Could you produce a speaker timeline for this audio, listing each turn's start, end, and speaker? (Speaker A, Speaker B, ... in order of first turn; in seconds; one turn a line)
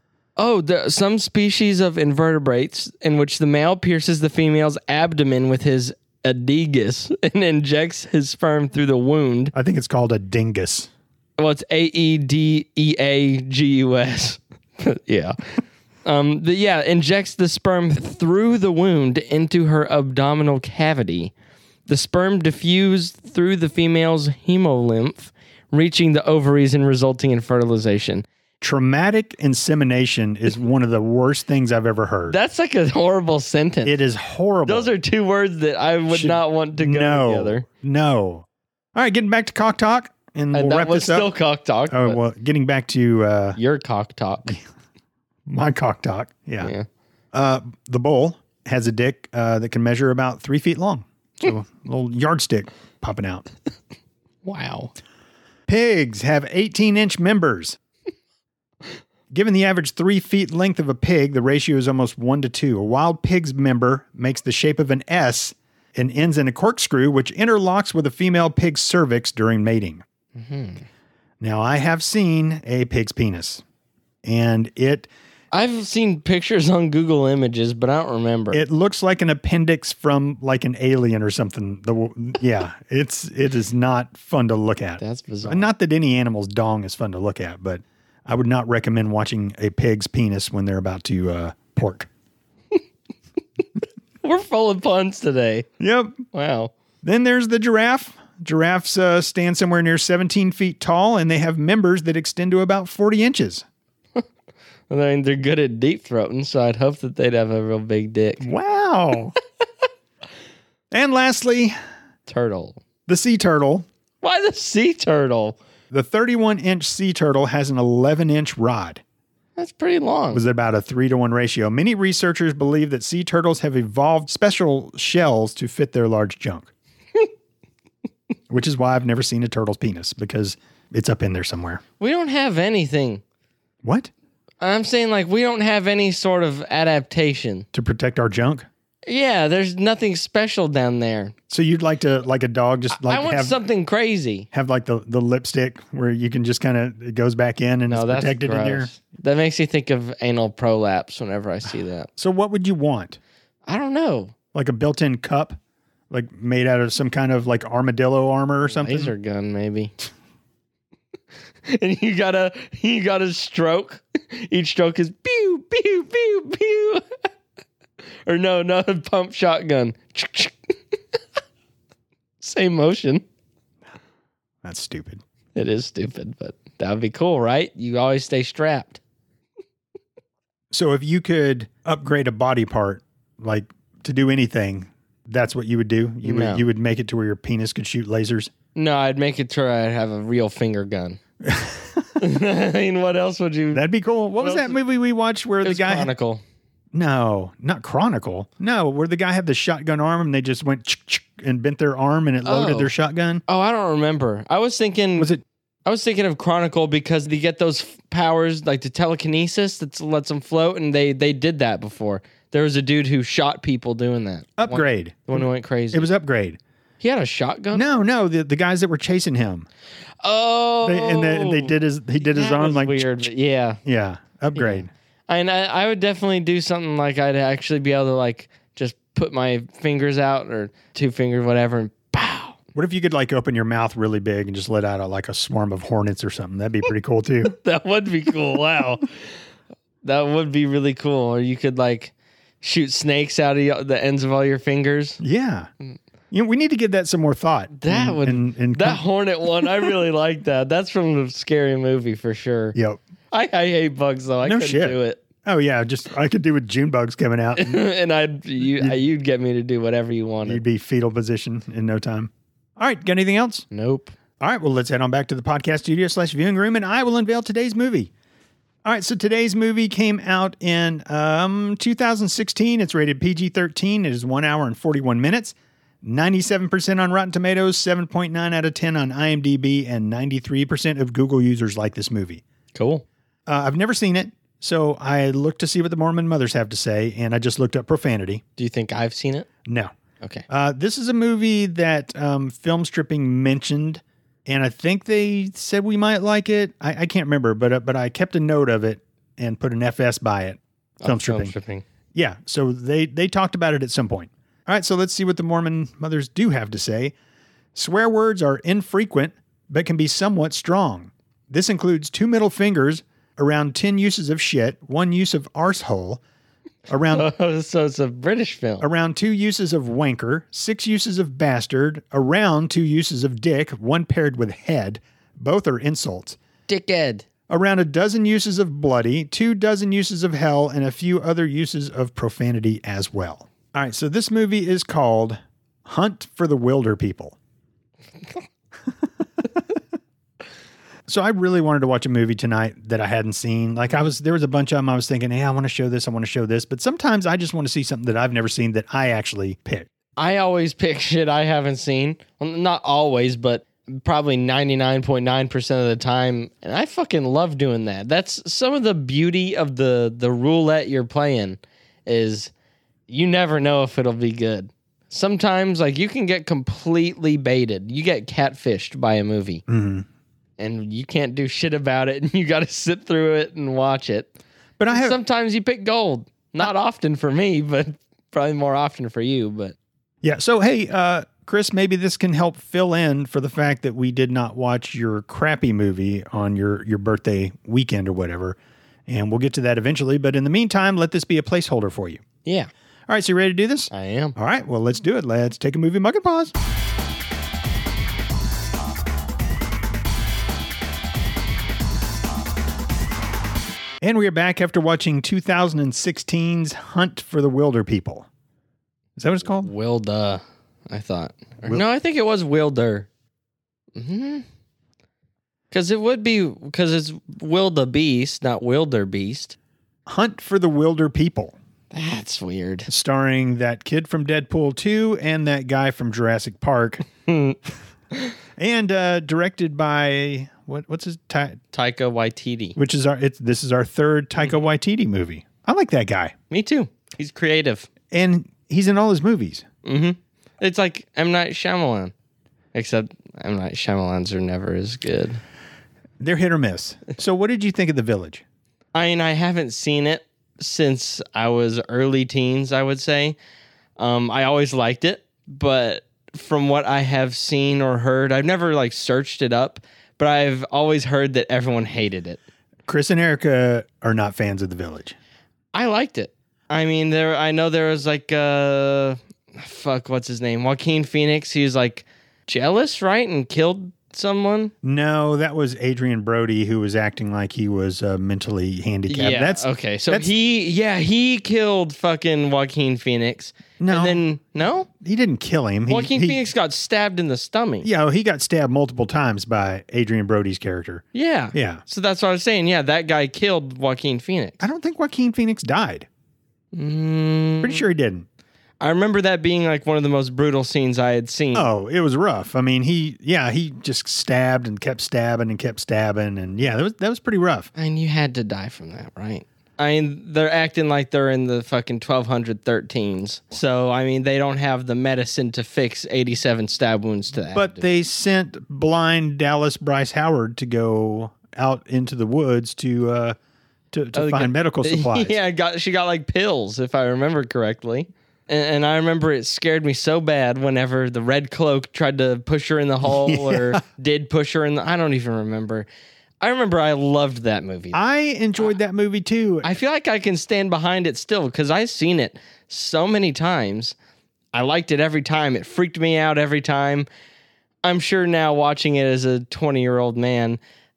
Speaker A: 0.3-9.5
Speaker B: 9.5-10.9
Speaker A: 11.4-15.3
Speaker A: 16.0-21.3
Speaker A: 21.9-28.2
Speaker B: 28.6-32.4
Speaker A: 32.3-34.0
Speaker B: 33.8-34.9
Speaker A: 34.7-37.6
Speaker B: 36.1-41.3
Speaker A: 40.5-42.2
Speaker B: 41.9-43.6
Speaker A: 43.5-44.6
Speaker B: 45.5-46.7
Speaker A: 46.6-46.9
Speaker B: 47.3-53.5
Speaker A: 54.4-54.9
Speaker B: 55.7-57.8
Speaker B: 59.3-70.0
Speaker A: 70.3-70.8
Speaker B: 71.4-73.6
Speaker B: 74.2-75.1
Speaker A: 75.5-78.6
Speaker B: 78.5-92.1
Speaker A: 85.0-85.7
Speaker A: 94.2-95.7
Speaker B: 95.8-96.2
Speaker A: 96.3-96.7
Speaker B: 97.0-103.6
Speaker A: 104.9-108.5
Speaker B: 108.4-109.3
Speaker B: 110.9-111.7
Speaker A: 112.3-112.8
Speaker B: 113.1-113.9
Speaker A: 114.2-115.6
Speaker B: 115.9-119.0
Speaker A: 119.5-120.4
Speaker B: 120.3-126.7
Speaker B: 128.5-131.8
Speaker A: 132.0-133.2
Speaker B: 133.8-134.1
Speaker A: 134.6-137.7
Speaker B: 137.7-138.7
Speaker A: 139.1-141.3
Speaker B: 141.5-143.6
Speaker A: 142.9-144.5
Speaker B: 144.5-148.9
Speaker A: 147.9-152.1
Speaker B: 152.1-153.2
Speaker A: 153.7-154.3
Speaker B: 154.5-155.6
Speaker B: 156.1-159.1
Speaker A: 158.6-159.9
Speaker A: 161.7-167.0
Speaker A: 168.2-170.7
Speaker A: 172.4-173.2
Speaker B: 174.6-175.2
Speaker A: 175.5-179.0
Speaker B: 180.7-188.5
Speaker A: 186.2-186.6
Speaker A: 188.7-191.2
Speaker B: 191.4-192.2
Speaker A: 192.2-193.8
Speaker B: 193.7-196.1
Speaker A: 194.4-194.8
Speaker A: 195.6-196.4
Speaker B: 196.9-203.4
Speaker A: 202.4-202.9
Speaker A: 203.5-205.3
Speaker A: 205.8-216.1
Speaker B: 214.6-216.6
Speaker A: 217.0-217.8
Speaker B: 217.7-219.7
Speaker A: 220.2-223.8
Speaker B: 220.8-223.3
Speaker B: 223.8-224.9
Speaker A: 224.6-232.6
Speaker B: 232.7-237.6
Speaker A: 237.4-239.1
Speaker A: 240.0-245.2
Speaker B: 245.2-245.7
Speaker B: 246.3-249.0
Speaker A: 247.7-252.8
Speaker B: 252.7-253.0
Speaker A: 253.3-255.2
Speaker B: 254.4-257.8
Speaker A: 257.6-260.6
Speaker B: 258.6-259.0
Speaker B: 260.4-263.6
Speaker A: 263.7-264.1
Speaker B: 264.4-268.1
Speaker B: 268.8-282.4
Speaker A: 282.7-283.0
Speaker B: 283.5-288.4
Speaker A: 288.6-289.5
Speaker B: 289.6-289.9
Speaker B: 290.5-301.5
Speaker A: 301.0-301.8
Speaker B: 302.1-307.1
Speaker B: 307.7-316.2
Speaker B: 316.9-317.3
Speaker A: 317.1-318.9
Speaker B: 318.8-326.4
Speaker A: 326.7-327.2
Speaker B: 327.5-337.4
Speaker B: 341.1-349.9
Speaker A: 350.2-362.5
Speaker A: 363.1-369.6
Speaker B: 369.7-370.1
Speaker A: 370.6-374.3
Speaker B: 374.8-375.2
Speaker A: 374.9-379.7
Speaker B: 380.2-392.2
Speaker B: 393.1-396.5
Speaker A: 393.9-394.4
Speaker B: 404.0-408.3
Speaker B: 409.2-409.7
Speaker A: 409.6-413.1
Speaker A: 413.9-414.4
Speaker A: 415.7-419.6
Speaker B: 420.1-421.6
Speaker A: 421.9-422.9
Speaker B: 422.9-427.0
Speaker A: 427.3-427.6
Speaker B: 428.6-431.6
Speaker A: 431.7-432.8
Speaker B: 432.8-436.3
Speaker A: 436.5-437.9
Speaker B: 438.1-439.6
Speaker A: 439.8-442.1
Speaker A: 442.7-445.4
Speaker B: 446.2-448.4
Speaker A: 448.9-453.4
Speaker A: 454.0-462.4
Speaker B: 462.9-465.1
Speaker A: 465.7-474.7
Speaker B: 474.8-480.3
Speaker A: 479.1-484.9
Speaker B: 483.8-484.2
Speaker B: 485.0-486.4
Speaker A: 485.9-487.9
Speaker B: 487.8-491.8
Speaker A: 491.1-494.6
Speaker B: 494.6-496.1
Speaker A: 496.7-497.8
Speaker B: 497.6-498.3
Speaker A: 498.8-501.7
Speaker B: 501.5-507.7
Speaker A: 507.8-517.8
Speaker B: 517.5-523.4
Speaker B: 523.9-525.4
Speaker A: 524.1-535.9
Speaker B: 533.0-533.8
Speaker A: 536.4-538.0
Speaker B: 537.9-539.7
Speaker A: 539.6-544.0
Speaker A: 544.5-547.0
Speaker A: 547.8-550.6